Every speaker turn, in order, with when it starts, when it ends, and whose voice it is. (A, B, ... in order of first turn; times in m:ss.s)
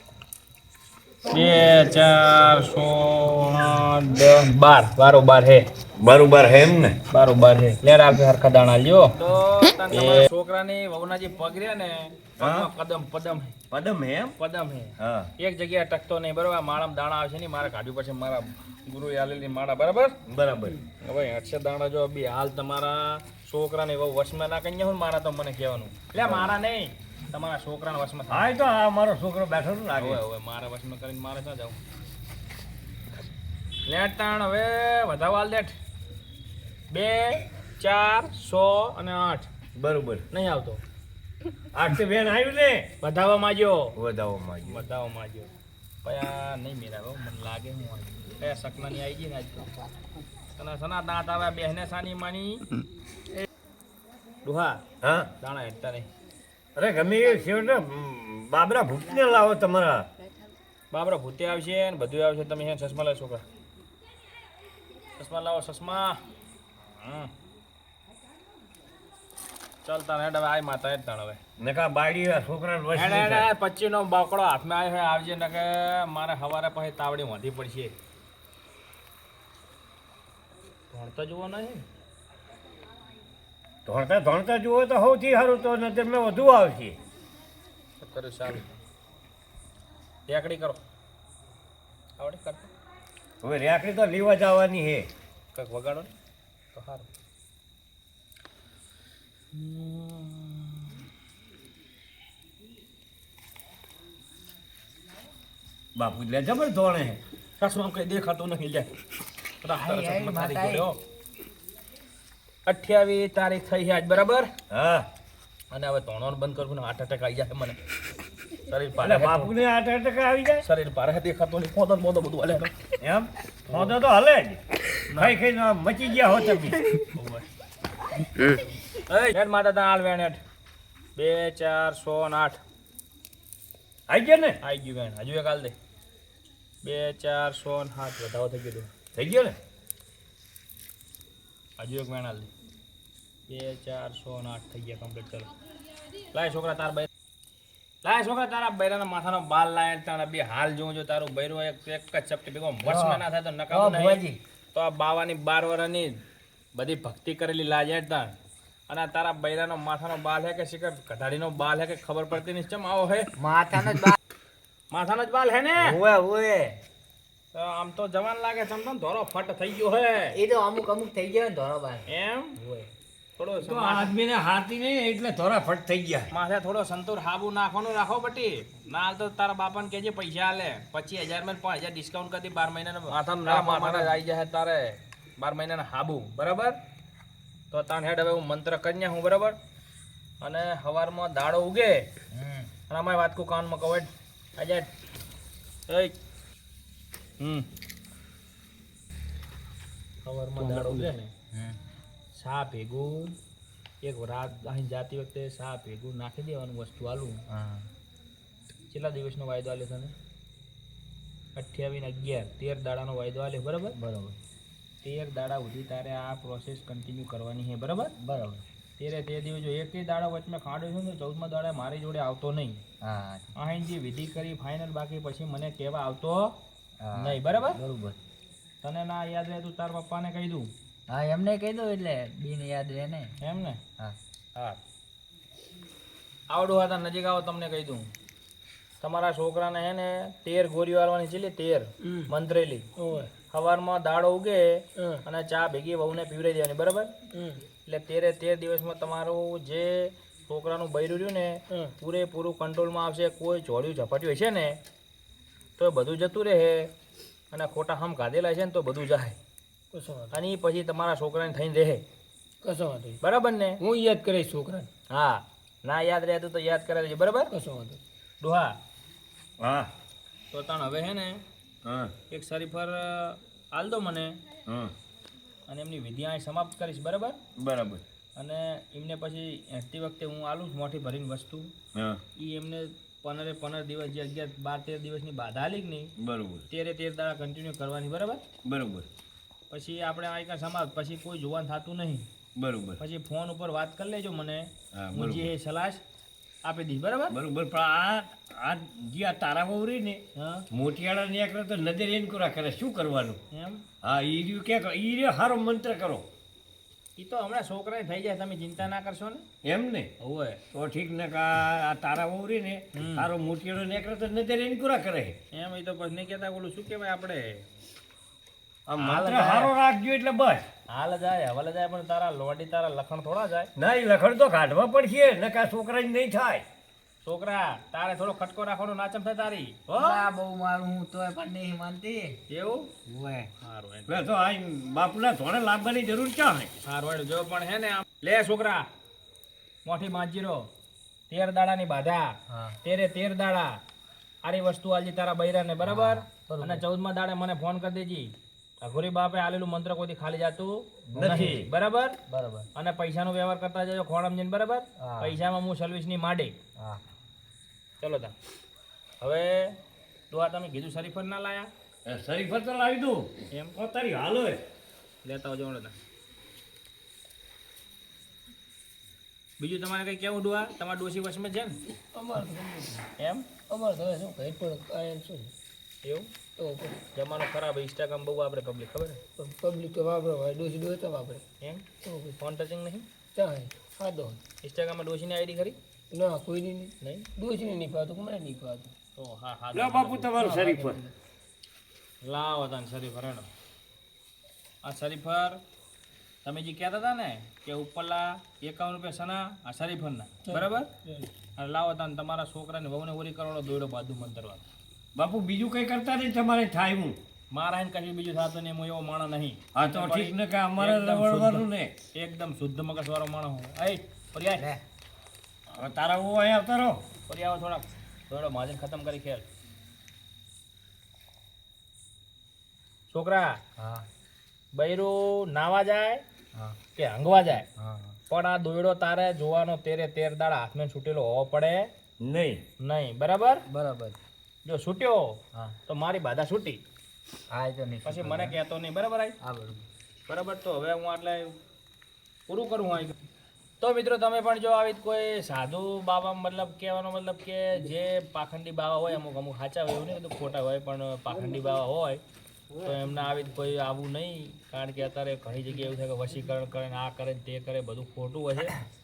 0:01.3-0:05.7 A
0:06.0-0:07.0 B
0:07.1-0:13.5 A
0:12.4-0:12.7 B
0:13.7-0:14.3 B
0:14.4-0:20.1 A
0:15.0-0:15.3 B
0:20.3-0:20.8 B
0:21.0-0:28.4 A
0:26.2-0:26.5 B
0:28.3-0:30.2 B
0:30.0-0:31.8 A
0:33.9-0:35.7 A
0:36.9-0:39.5 A
0:39.8-0:40.2 B
0:40.3-0:40.8 A
0:41.7-0:42.8 B
0:43.0-0:43.9 A
0:44.0-0:44.8 B
0:44.6-0:45.5 A
0:46.0-0:49.7 A
0:50.6-0:52.6 A
0:54.4-0:54.8 A
0:55.0-0:55.3 B
0:55.4-0:56.1 A
0:56.8-1:00.1 B
1:00.9-1:03.4 A
1:05.2-1:06.2 A
1:07.0-1:07.3 A
1:09.8-1:11.4 A
1:11.6-1:13.5 B
1:12.9-1:17.9 A
1:20.9-1:21.8 A
1:23.8-1:27.0 B
1:28.0-1:28.7 A
1:30.3-1:30.8 A
1:32.2-1:32.7 A
1:33.4-1:35.1 B
1:35.5-1:36.1 A
1:36.7-1:37.1 A
1:39.5-1:41.0 A
1:46.0-1:47.2 B
1:47.6-1:48.9 A
1:49.6-1:51.0 A
1:49.7-1:50.8 C
1:52.6-1:54.5 A
1:54.7-1:55.1 B
1:55.7-1:57.8 A
1:58.7-1:59.5 A
1:59.0-2:00.6 B
2:00.6-2:02.7 A
2:03.0-2:04.6 B
2:03.7-2:03.9 A
2:05.1-2:05.4 A
2:05.2-2:06.8 B
2:07.0-2:07.4 A
2:08.4-2:10.4 A
2:11.2-2:12.6 A
2:14.1-2:14.6 B
2:14.6-2:15.7 A
2:16.8-2:18.9 A
2:19.1-2:19.6 B
2:21.8-2:22.5 A
2:23.5-2:25.5 A
2:26.3-2:27.1 A
2:28.0-2:34.2 A
2:32.8-2:34.4 C
2:34.7-2:36.2 A
2:36.7-2:38.3 A
2:38.9-2:43.3 A
2:43.4-2:44.2 C
2:44.9-2:46.0 A
2:45.8-2:46.8 C
2:47.5-2:50.4 A
2:50.3-2:52.9 C
2:52.1-2:52.6 A
2:53.4-2:54.1 A
2:53.6-2:56.3 B
2:56.3-3:06.8 A
3:03.3-3:04.1 D
3:07.7-3:09.6 A
3:10.4-3:12.1 A
3:12.3-3:12.7 C
3:12.9-3:14.9 A
3:15.9-3:16.1 A
3:17.4-3:17.7 A
3:20.2-3:21.3 A
3:20.6-3:21.1 D
3:21.5-3:21.8 C
3:22.3-3:23.3 A
3:24.0-3:27.4 A
3:27.5-3:27.9 C
3:28.9-3:30.1 A
3:31.5-3:34.0 A
3:33.9-3:34.4 C
3:35.0-3:38.1 A
3:38.2-3:38.6 C
3:39.0-3:42.8 A
3:43.0-3:43.5 C
3:43.6-3:46.6 A
3:47.0-3:48.2 C
3:47.2-3:47.8 A
3:48.8-3:50.7 A
3:51.1-3:53.4 C
3:53.4-3:53.8 A
3:56.5-3:58.1 A
3:59.0-4:02.8 A
4:03.0-4:03.3 D
4:03.5-4:07.1 A
4:07.3-4:07.6 D
4:07.8-4:14.8 A
4:15.8-4:16.9 A
4:17.5-4:19.4 A
4:19.9-4:20.3 D
4:20.3-4:22.0 A
4:22.6-4:23.2 D
4:23.2-4:23.8 A
4:23.8-4:24.9 D
4:25.1-4:27.5 A
4:27.5-4:28.0 D
4:28.4-4:28.8 A
4:29.6-4:29.9 B
4:30.5-4:31.4 A
4:31.8-4:32.1 B
4:32.3-4:34.4 A
4:34.7-4:34.9 B
4:35.7-4:37.4 A
4:37.6-4:38.0 B
4:38.4-4:41.7 A
4:41.9-4:42.2 B
4:42.4-4:46.1 A
4:46.2-4:46.6 B
4:46.7-4:48.4 A
4:48.6-4:49.0 B
4:49.7-4:52.3 A
4:52.6-4:53.0 B
4:53.0-4:56.0 A
4:54.9-4:55.5 B
4:56.6-4:57.4 A
4:57.3-5:03.4 B
5:00.3-5:00.6 A
5:03.5-5:03.8 A
5:04.0-5:06.2 B
5:07.2-5:09.4 A
5:09.6-5:10.1 B
5:10.2-5:10.6 A
5:10.7-5:15.3 B
5:12.9-5:13.3 A
5:15.5-5:17.6 A
5:18.9-5:20.6 B
5:19.0-5:19.7 A
5:20.9-5:23.7 A
5:23.8-5:26.6 B
5:27.2-5:30.2 A
5:29.9-5:32.4 C
5:32.5-5:32.9 A
5:33.0-5:33.5 C
5:33.6-5:34.2 A
5:34.1-5:36.7 B
5:36.8-5:38.9 A
5:39.8-5:40.7 A
5:41.3-5:43.8 A
5:42.5-5:42.8 C
5:44.4-5:52.2 A
5:45.8-5:46.8 C
5:51.1-5:51.5 C
5:51.2-5:51.7 B
5:52.3-5:52.7 C
5:52.7-5:56.5 A
5:55.0-5:55.4 C
5:58.0-5:58.3 A
5:59.2-5:59.8 A
6:00.3-6:01.7 A
6:02.0-6:04.6 B
6:03.5-6:03.8 A
6:05.2-6:05.9 A
6:09.6-6:11.8 A
6:11.9-6:13.1 D
6:13.2-6:13.5 A
6:13.7-6:15.5 D
6:16.0-6:16.3 A
6:16.6-6:17.0 D
6:17.1-6:19.2 A
6:19.4-6:21.4 D
6:21.6-6:21.8 A
6:22.0-6:22.4 D
6:22.4-6:23.1 A
6:23.3-6:24.4 D
6:24.6-6:25.8 A
6:26.1-6:28.9 D
6:27.0-6:27.3 A
6:29.2-6:30.8 A
6:29.7-6:31.1 B
6:30.6-6:31.1 D
6:32.2-6:33.5 A
6:34.8-6:35.6 A
6:36.4-6:40.9 A
6:40.4-6:41.3 D
6:41.6-6:44.6 A
6:45.2-6:47.2 B
6:47.5-6:54.6 A
6:49.7-6:51.9 B
6:54.6-6:54.8 C
6:55.8-6:57.0 B
6:57.3-6:59.4 A
7:03.1-7:03.6 A
7:03.8-7:04.1 C
7:04.7-7:06.2 A
7:07.0-7:07.7 A
7:07.8-7:08.2 C
7:08.3-7:11.9 A
7:12.2-7:12.6 B
7:12.8-7:13.6 A
7:13.7-7:14.2 C
7:14.6-7:16.8 A
7:17.5-7:18.6 C
7:18.0-7:19.4 A
7:19.4-7:19.8 C
7:20.3-7:21.5 A
7:22.5-7:23.2 A
7:23.8-7:32.2 A
7:32.8-7:38.7 A